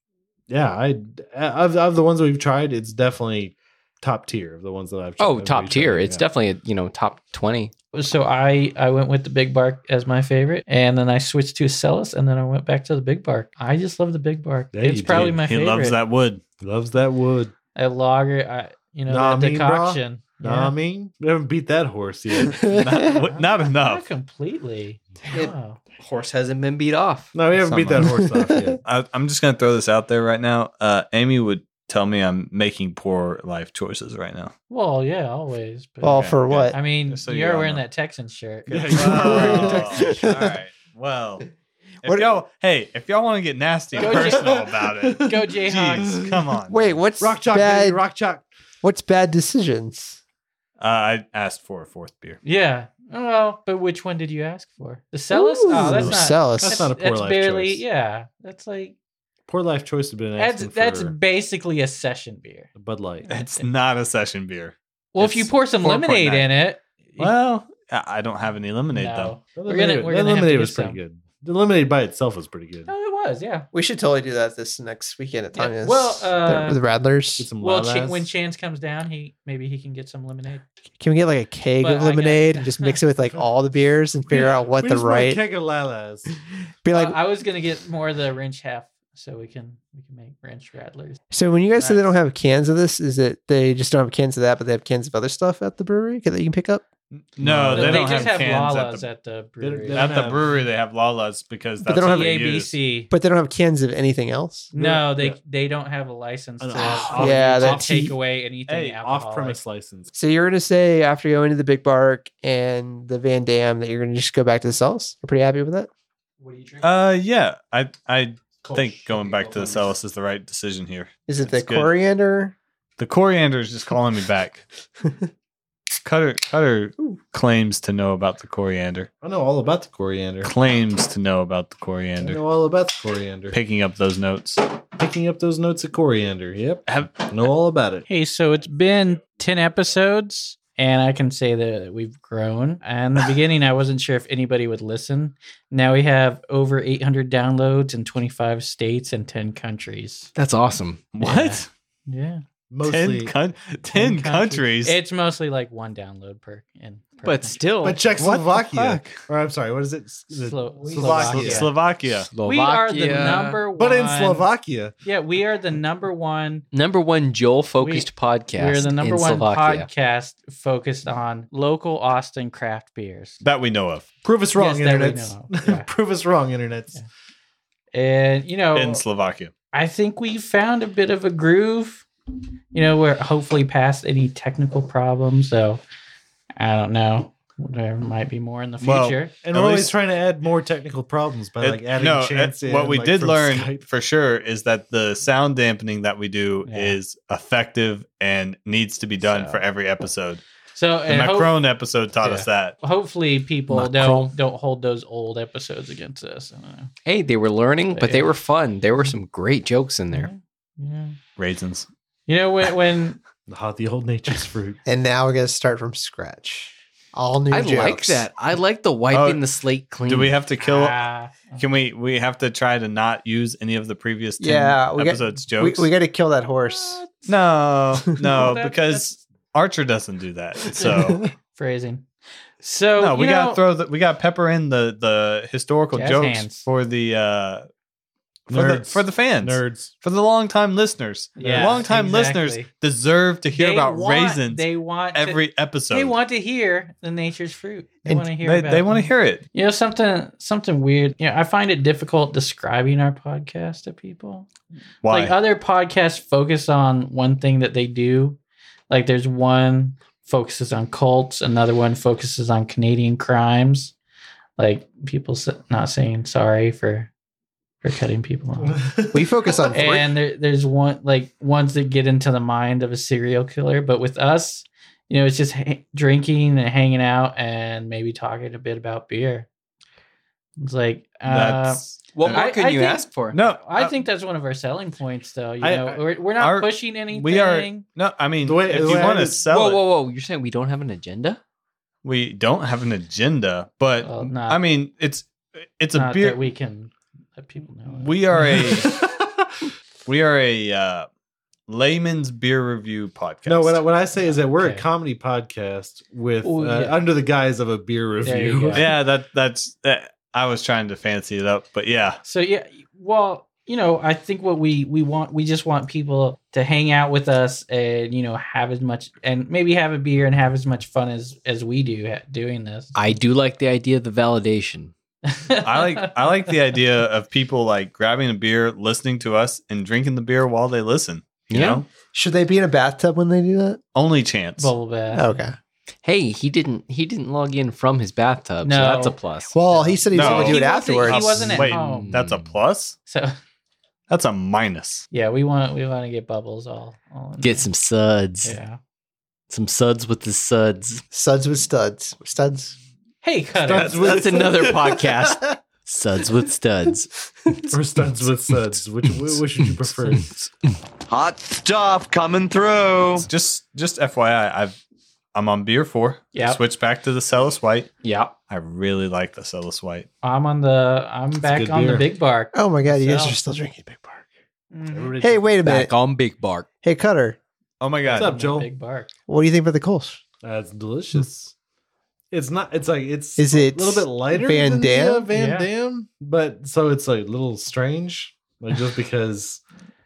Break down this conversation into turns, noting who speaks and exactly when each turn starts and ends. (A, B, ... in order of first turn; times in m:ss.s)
0:00.5-0:06.2 A
0:05.2-0:07.7 B
0:07.9-0:16.0 C
0:14.7-0:15.4 A
0:15.1-0:16.4 D
0:16.6-0:17.5 A
0:17.7-0:20.7 C
0:19.1-0:22.8 A
0:22.7-0:24.0 D
0:23.1-0:25.8 C
0:25.3-0:27.3 B
0:27.3-0:28.8 A
0:27.6-0:28.1 D
0:28.8-0:34.5 D
0:34.7-0:39.6 C
0:36.0-0:36.8 E
0:36.0-0:37.8 D
0:38.7-0:40.4 A
0:38.7-0:41.4 D
0:39.1-0:40.6 E
0:42.0-0:47.0 D
0:42.0-0:42.4 E
0:44.0-0:44.5 C
0:44.0-0:45.4 A
0:45.2-0:46.2 C
0:46.0-0:46.4 A
0:46.7-0:48.0 E
0:47.2-0:48.4 A
0:48.8-0:50.2 E
0:50.8-0:52.4 D
0:52.4-0:58.9 C
0:55.3-0:56.9 E
0:55.8-0:57.8 A
0:59.5-1:01.2 A
1:00.4-1:02.7 C
1:02.8-1:03.2 A
1:03.2-1:03.7 C
1:03.3-1:06.5 D
1:05.1-1:07.3 C
1:07.2-1:09.4 D
1:08.9-1:11.0 C
1:09.5-1:12.9 A
1:12.9-1:13.7 C
1:13.7-1:17.5 E
1:15.5-1:16.8 C
1:17.4-1:18.3 A
1:17.6-1:20.6 C
1:21.0-1:25.4 E
1:21.8-1:23.0 C
1:24.3-1:26.3 A
1:26.8-1:27.2 E
1:26.9-1:31.2 C
1:31.3-1:36.8 E
1:31.8-1:32.1 C
1:37.1-1:39.0 D
1:37.4-1:38.6 A
1:37.7-1:40.2 C
1:39.6-1:40.5 A
1:39.9-1:42.8 D
1:41.8-1:42.3 E
1:41.9-1:43.1 C
1:43.1-1:44.7 E
1:44.7-1:49.6 C
1:44.7-1:45.4 A
1:46.6-1:48.2 A
1:47.1-1:48.1 E
1:48.7-1:49.0 D
1:49.0-1:50.1 A
1:50.1-1:55.9 E
1:56.4-1:56.8 B
1:56.8-2:01.9 D
1:58.7-1:59.6 A
2:01.3-2:02.5 E
2:03.0-2:04.6 D
2:06.0-2:09.1 D
2:09.2-2:10.5 A
2:10.4-2:12.4 D
2:12.2-2:13.6 A
2:13.5-2:14.7 D
2:15.0-2:18.0 A
2:16.9-2:17.5 D
2:18.1-2:30.3 C
2:30.4-2:31.1 B
2:31.1-2:31.7 D
2:31.2-2:32.4 C
2:32.7-2:33.3 A
2:32.8-2:35.0 D
2:33.9-2:37.6 C
2:37.2-2:38.2 B
2:37.8-2:41.7 A
2:38.2-2:39.2 D
2:40.3-2:41.8 C
2:41.2-2:42.3 D
2:42.3-2:43.6 B
2:42.4-2:44.5 C
2:43.7-2:44.9 A
2:45.0-2:46.6 C
2:46.7-2:49.9 B
2:47.8-2:53.4 C
2:53.4-2:54.1 D
2:54.2-2:57.0 A
2:54.5-2:55.9 C
2:57.9-2:59.0 C
2:58.7-2:59.5 D
2:59.7-3:02.0 C
3:02.7-3:05.8 C
3:06.6-3:09.3 C
3:08.8-3:09.9 D
3:09.4-3:13.8 A
3:11.6-3:20.4 D
3:16.6-3:17.0 C
3:19.2-3:19.6 C
3:20.7-3:21.6 C
3:21.1-3:22.8 D
3:22.2-3:26.9 C
3:23.7-3:24.3 B
3:27.0-3:30.3 B
3:27.9-3:28.3 C
3:30.1-3:31.2 C
3:31.4-3:31.9 D
3:32.3-3:33.2 C
3:33.5-3:34.8 A
3:34.8-3:38.3 E
3:37.5-3:40.4 B
3:39.1-3:39.4 D
3:40.0-3:41.0 D
3:40.6-3:41.6 C
3:41.6-3:45.9 D
3:44.4-3:47.0 E
3:46.7-3:47.3 C
3:47.2-3:51.3 D
3:48.3-3:49.2 C
3:50.7-3:52.1 C
3:52.6-3:53.6 C
3:53.0-3:57.7 D
3:55.9-3:56.7 C
3:58.5-3:59.9 A
3:58.5-4:06.2 D
4:01.4-4:02.7 C
4:01.4-4:01.9 A
4:03.5-4:14.5 C
4:08.4-4:09.4 D
4:15.0-4:15.4 D
4:15.1-4:18.4 C
4:18.9-4:23.9 C
4:24.6-4:27.1 C
4:27.8-4:28.8 C
4:28.6-4:29.3 A
4:29.1-4:30.1 E
4:29.7-4:39.5 C
4:40.6-4:47.8 C
4:41.2-4:42.5 D
4:42.1-4:43.4 B
4:43.3-4:43.9 D
4:45.6-4:46.0 A
4:46.3-4:49.8 D
4:48.4-4:49.4 A
4:49.5-4:51.4 B
4:52.0-4:56.4 D
4:54.0-4:54.6 C
4:55.9-4:58.8 C
4:57.9-4:59.0 D
4:58.6-4:59.7 A
5:00.0-5:01.1 D
5:01.7-5:03.8 D
5:03.5-5:08.9 A
5:04.2-5:04.8 C
5:06.4-5:07.0 C
5:08.2-5:08.9 C
5:08.7-5:12.2 D
5:12.2-5:22.9 C
5:22.9-5:24.9 B
5:25.2-5:26.5 C
5:25.6-5:31.8 D
5:31.5-5:31.8 B
5:32.1-5:33.8 E
5:33.9-5:34.7 D
5:34.6-5:35.5 C
5:35.1-5:35.5 E
5:36.0-5:40.0 B
5:38.6-5:39.2 C
5:39.5-5:41.5 E
5:40.1-5:43.0 D
5:40.2-5:42.1 C
5:41.5-5:42.5 B
5:43.1-5:43.4 C
5:44.1-5:45.1 D
5:45.1-5:47.7 C
5:47.4-5:48.6 B
5:48.4-5:48.8 C
5:49.5-5:51.0 B
5:51.1-5:52.8 E
5:53.2-5:54.0 C
5:53.6-5:54.7 A
5:53.7-5:57.7 B
5:57.7-6:00.5 A
6:01.1-6:03.3 F
6:03.2-6:04.8 D
6:05.3-6:07.9 D
6:06.3-6:06.6 C
6:08.0-6:08.3 B
6:08.5-6:10.1 D
6:10.2-6:13.4 C
6:11.4-6:12.1 A
6:12.5-6:14.3 E
6:14.7-6:15.2 C
6:14.9-6:15.6 A
6:15.2-6:15.9 E
6:15.6-6:16.7 B
6:16.8-6:17.4 E
6:17.8-6:18.4 D
6:18.1-6:19.1 C
6:18.1-6:18.7 A
6:19.3-6:20.2 E
6:20.4-6:21.5 A
6:22.3-6:29.6 A
6:23.4-6:25.3 E
6:25.3-6:25.7 C